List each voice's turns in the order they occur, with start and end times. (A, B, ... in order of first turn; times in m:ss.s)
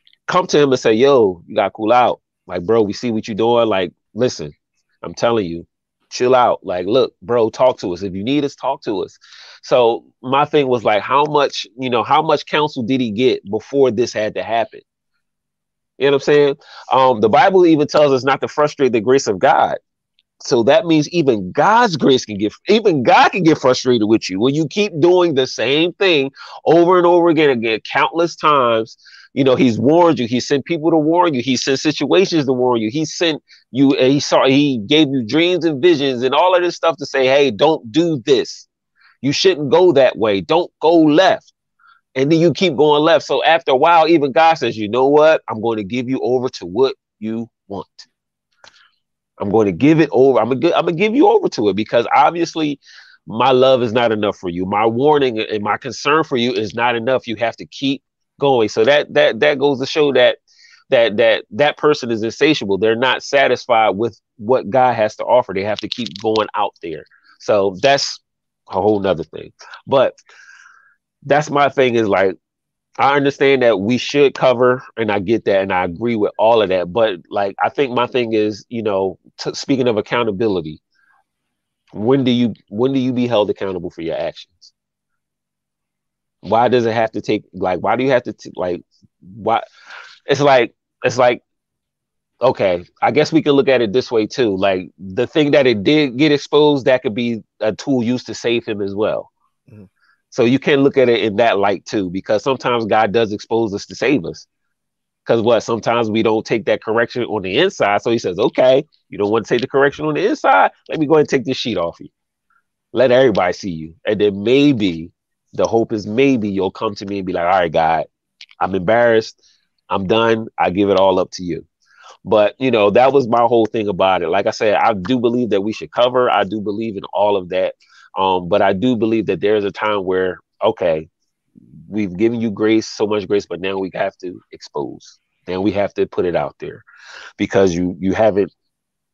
0:00.3-0:14.8 A
0:16.0-0:19.8 A
0:20.4-0:38.7 A
0:39.2-0:41.5 A
0:42.2-0:48.1 A
0:49.4-1:00.4 A
1:00.9-1:10.2 A
1:11.2-1:12.3 A
1:13.0-1:20.8 A
1:21.9-1:24.7 A
1:26.4-1:29.6 A
1:30.3-1:31.4 A
1:32.4-1:39.3 A
1:40.3-1:44.4 A
1:45.2-1:52.1 A
1:52.9-1:58.1 A
1:58.6-1:59.4 A
1:59.9-2:01.6 A
2:02.2-2:11.1 A
2:11.9-2:16.8 A
2:17.4-2:18.5 A